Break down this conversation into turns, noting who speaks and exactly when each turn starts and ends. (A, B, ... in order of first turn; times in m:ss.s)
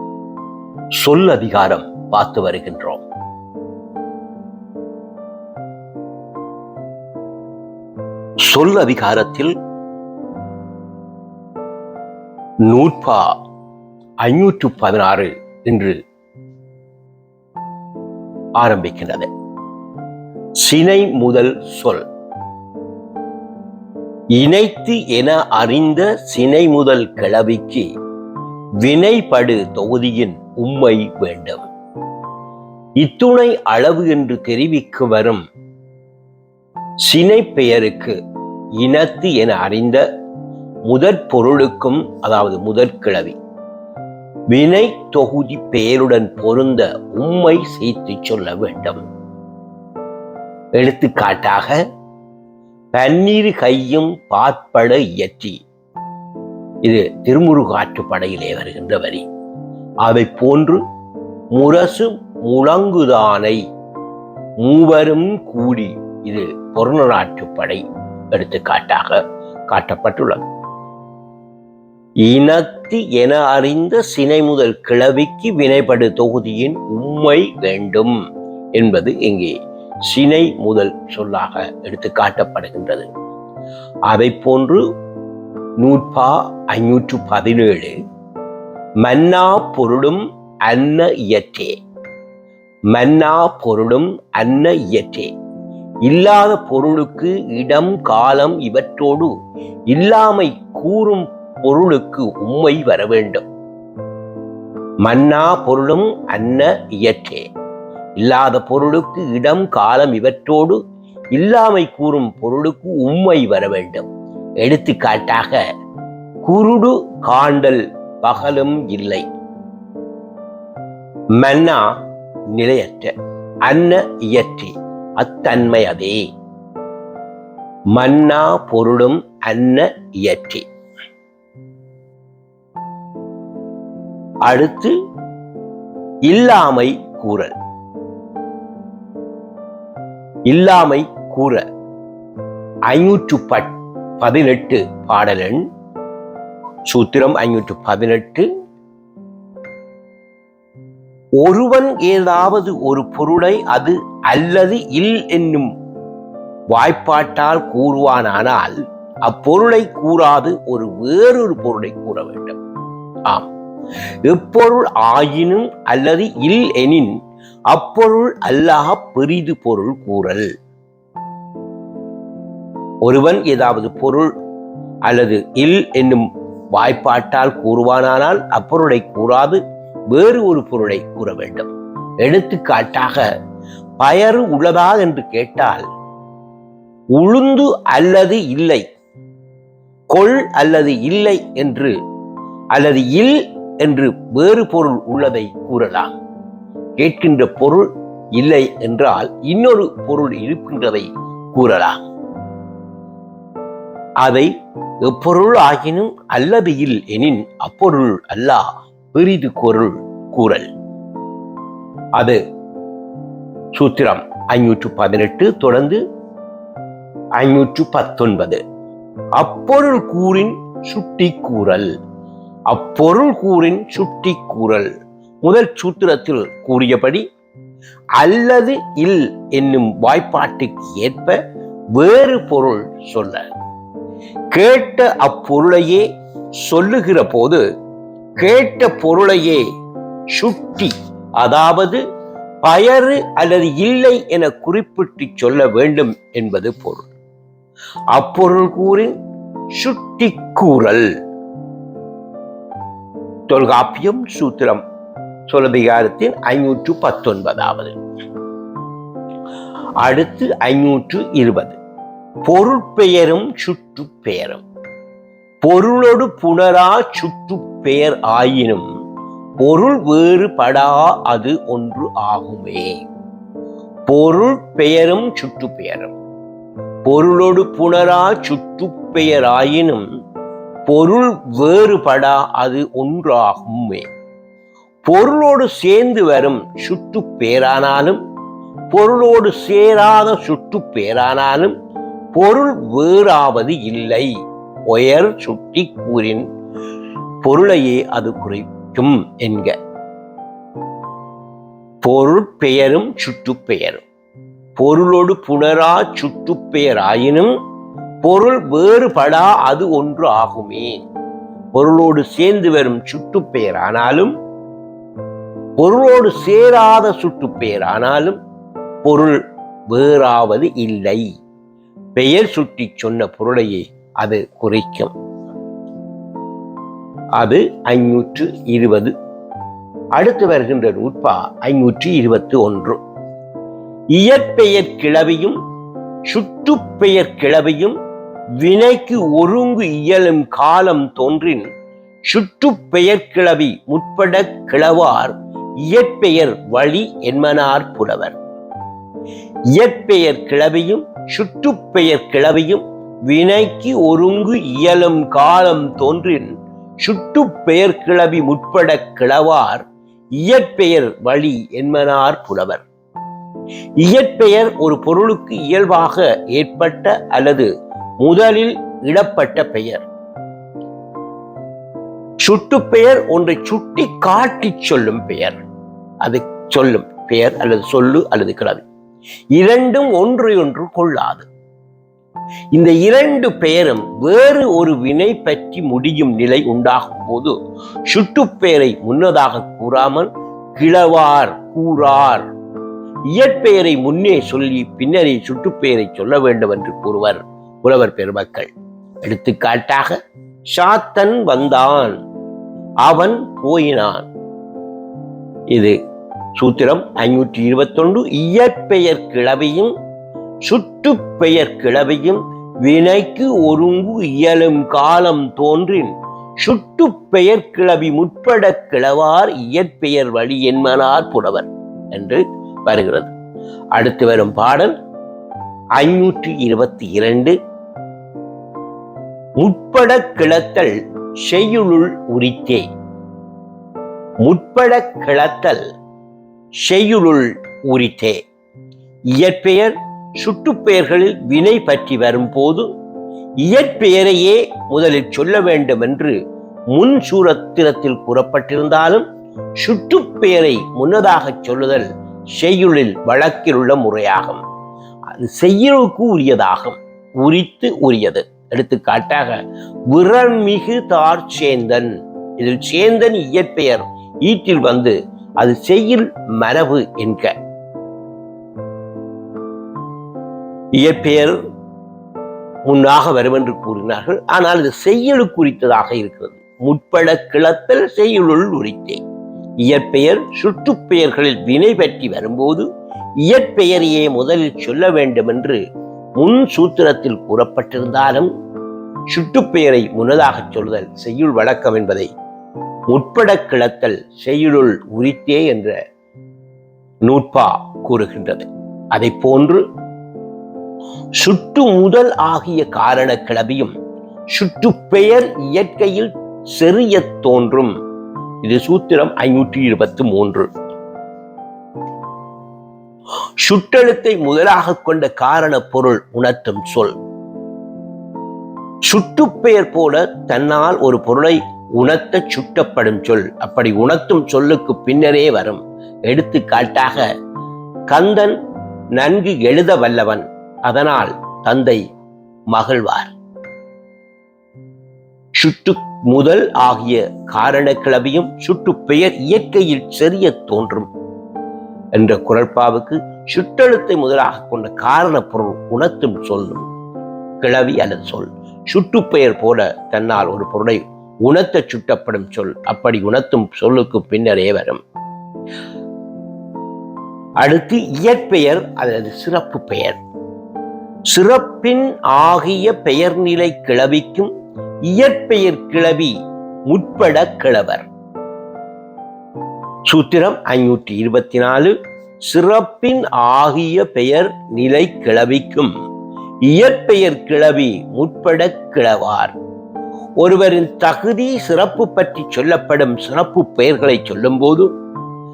0:01.0-0:03.0 A
0:08.4-0:09.5 A
0:12.6-0:13.4 A
0:14.2-0:16.0 A
0:18.6-0:19.3 A
0:20.6-0:22.0 A
0:24.4-0:27.9 A
0:28.8-0:31.6 A
0:33.0-0:35.4 A
0:37.0-0:38.2 A
0:38.8-0:40.0 A
0:40.9-0:43.4 A
0:44.5-0:49.0 A
0:50.8-0:51.8 A
0:52.9-0:55.6 A
0:56.8-0:59.2 A
1:00.0-1:00.8 A
1:01.5-1:03.6 A
1:04.6-1:10.4 A
1:12.2-1:18.1 A
1:18.8-1:19.5 A
1:20.1-1:23.1 A
1:24.1-1:24.8 A
1:25.8-1:28.0 A
1:29.0-1:31.7 A
1:32.9-1:35.3 A
1:36.1-1:39.3 A
1:39.9-1:43.4 A
1:45.0-1:47.4 A
1:48.2-1:50.8 A
1:51.3-1:54.1 A
1:54.6-1:55.6 A
1:56.4-1:59.2 A
2:01.4-2:01.9 A
2:02.5-2:03.1 A
2:03.7-2:06.2 A
2:08.0-2:10.6 A
2:14.5-2:14.9 A
2:16.3-2:17.5 A
2:20.5-2:21.6 A
2:22.9-2:25.6 A
2:26.9-2:28.5 A
2:31.4-2:35.7 A
2:36.7-2:42.6 A
2:44.2-2:47.1 A
2:47.7-2:50.5 A
2:53.0-2:54.3 A
2:55.1-3:01.7 A
3:02.2-3:03.2 A
3:04.0-3:05.9 A
3:07.2-3:08.8 A
3:10.1-3:11.9 A
3:12.7-3:16.1 A
3:17.0-3:22.0 A
3:24.2-3:24.5 A
3:25.0-3:30.7 A
3:33.8-3:36.0 A
3:37.4-3:38.6 A
3:39.4-3:41.9 A
3:42.7-3:44.9 A
3:45.4-3:47.2 A
3:48.2-3:51.4 A
3:52.0-3:53.4 A
3:54.5-3:56.1 A
3:56.6-3:57.6 A
3:58.4-3:59.6 A
4:00.3-4:02.0 A
4:02.6-4:07.1 A
4:08.1-4:09.1 A
4:09.7-4:11.1 A
4:13.5-4:14.8 A
4:15.5-4:18.0 A
4:20.0-4:21.8 A
4:22.5-4:24.6 A
4:25.6-4:28.9 A
4:29.6-4:33.0 A
4:34.1-4:36.2 A
4:37.1-4:40.0 A
4:40.9-4:44.1 A
4:45.0-4:48.2 A
4:48.9-4:51.8 A
4:52.3-4:54.3 A
4:54.9-4:56.5 A
4:57.4-4:59.8 A
5:02.0-5:04.0 A
5:04.8-5:07.5 A
5:08.2-5:11.0 A
5:11.8-5:14.3 A
5:15.8-5:18.4 A
5:19.0-5:21.3 A
5:22.2-5:25.1 A
5:27.4-5:29.1 A
5:30.2-5:33.0 A
5:34.1-5:35.6 A
5:36.3-5:38.0 A
5:38.6-5:41.7 A
5:42.3-5:48.4 A
5:49.7-5:59.8 A
6:00.4-6:02.8 A
6:04.0-6:07.7 A
6:08.2-6:10.0 A
6:12.4-6:15.6 A
6:16.2-6:18.8 A
6:19.6-6:21.5 A
6:22.7-6:27.5 A
6:28.1-6:32.5 A
6:33.3-6:38.7 A
6:39.2-6:40.2 A
6:40.7-6:42.2 A
6:43.0-6:44.3 A
6:46.6-6:49.9 A
6:50.7-7:03.3 A
7:04.0-7:05.0 A
7:06.0-7:07.6 A
7:09.6-7:12.9 A
7:14.4-7:15.9 A
7:16.8-7:18.4 A
7:19.3-7:22.9 A
7:23.6-7:26.4 A
7:26.9-7:29.3 A
7:29.8-7:34.6 A
7:35.4-7:47.5 A
7:51.0-7:51.6 A
7:52.9-7:59.2 A
7:59.8-8:02.9 A
8:03.4-8:05.8 A
8:06.4-8:08.5 A
8:09.3-8:12.3 A
8:13.1-8:15.9 A
8:17.2-8:19.8 A
8:21.4-8:23.9 A
8:24.5-8:27.9 A
8:28.6-8:30.7 A
8:33.6-8:37.1 A
8:39.1-8:47.2 A
8:48.1-8:48.6 A
8:49.2-8:52.0 A
8:52.7-8:53.3 A
8:55.6-9:01.1 A
9:02.2-9:06.9 A
9:07.6-9:15.0 A
9:17.6-9:20.2 A
9:21.3-9:24.5 A
9:25.1-9:26.3 A
9:26.9-9:28.1 A
9:30.1-9:31.9 A
9:32.5-9:35.9 A
9:36.6-9:39.5 A
9:40.4-9:44.9 A